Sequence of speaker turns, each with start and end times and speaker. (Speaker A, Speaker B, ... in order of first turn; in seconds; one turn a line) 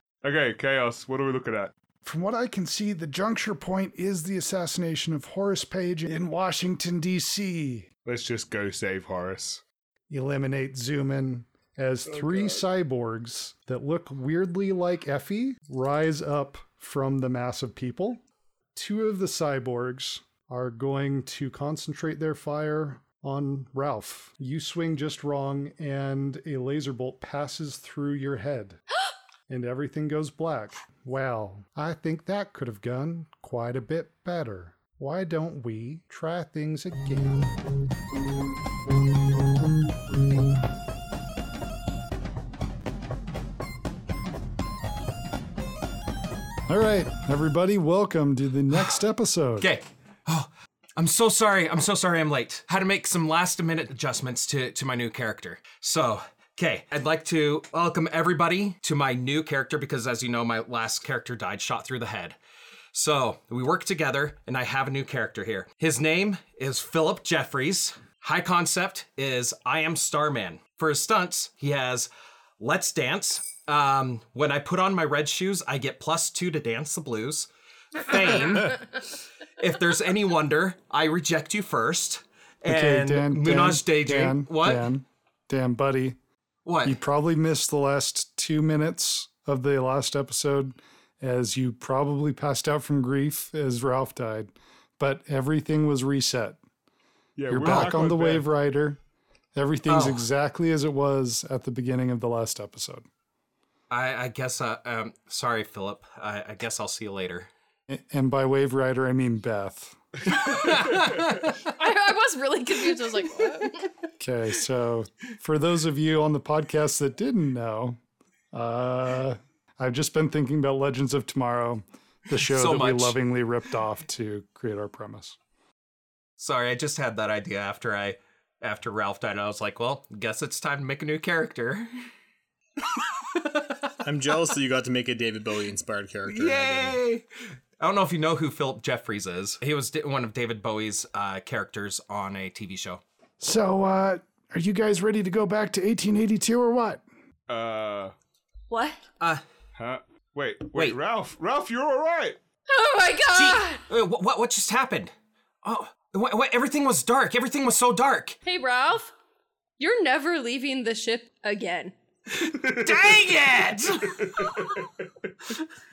Speaker A: 0.2-1.7
Speaker B: 2.0-7.9
Speaker A: 8.0-9.6
Speaker B: 10.1-18.2
Speaker A: 12.1-12.6
Speaker B: 18.7-28.8
Speaker B: 29.5-37.5
Speaker B: 46.7-49.7
Speaker C: 49.6-62.4
Speaker C: 62.9-79.0
Speaker C: 79.6-84.9
Speaker B: 82.7-86.2
Speaker C: 86.6-87.0
Speaker B: 86.8-96.6
Speaker A: 97.3-98.5
Speaker B: 97.5-99.0
Speaker C: 97.6-98.0
Speaker B: 99.5-103.1
Speaker C: 99.8-100.2
Speaker C: 103.9-107.5
Speaker B: 107.9-110.0
Speaker C: 110.4-111.5
Speaker D: 111.6-113.9
Speaker B: 114.2-118.0
Speaker B: 118.5-125.3
Speaker C: 122.4-123.2
Speaker C: 126.4-131.9
Speaker C: 132.9-133.9
Speaker E: 134.0-137.0
Speaker C: 136.3-137.2
Speaker C: 137.8-143.0
Speaker B: 143.4-147.0
Speaker A: 147.5-148.1
Speaker D: 148.7-149.0
Speaker A: 149.8-152.4
Speaker D: 152.7-153.8
Speaker C: 153.3-155.1
Speaker C: 155.6-158.4
Speaker D: 158.4-159.1
Speaker D: 159.8-161.9
Speaker C: 162.3-164.8
Speaker A: 162.4-163.3
Speaker A: 164.0-164.9